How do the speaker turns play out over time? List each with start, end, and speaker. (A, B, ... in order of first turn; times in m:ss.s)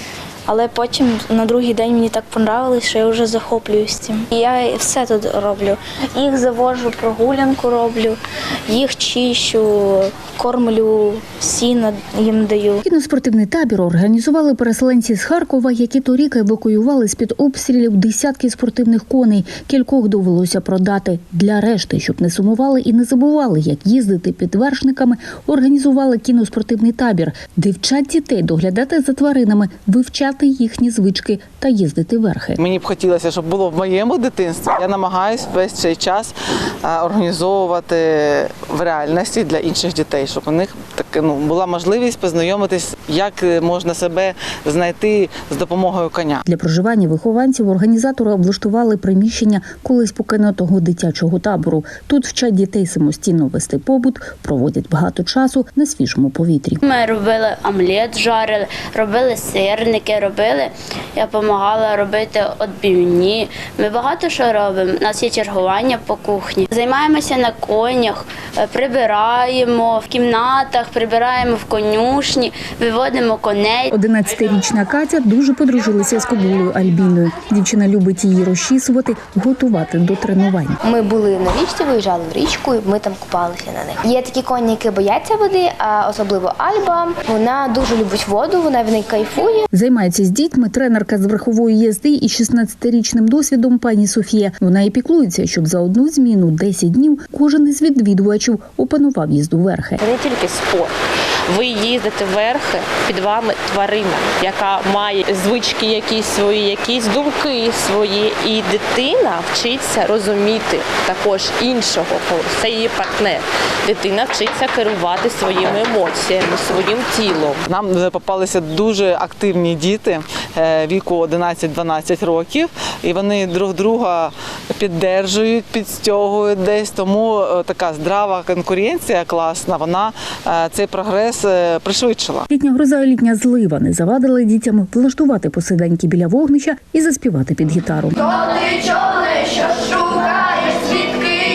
0:00.5-0:12.8 A
0:12.8-0:32.6 B
0:32.6-0:46.4 C
0:46.5-0:56.8 B
0:56.8-1:13.9 D
1:13.9-1:20.8 B
1:20.8-1:29.6 E
1:29.7-1:40.0 B
1:40.0-1:40.9 F
1:41.5-1:57.6 F
1:57.7-2:12.5 C
2:12.5-2:18.3 B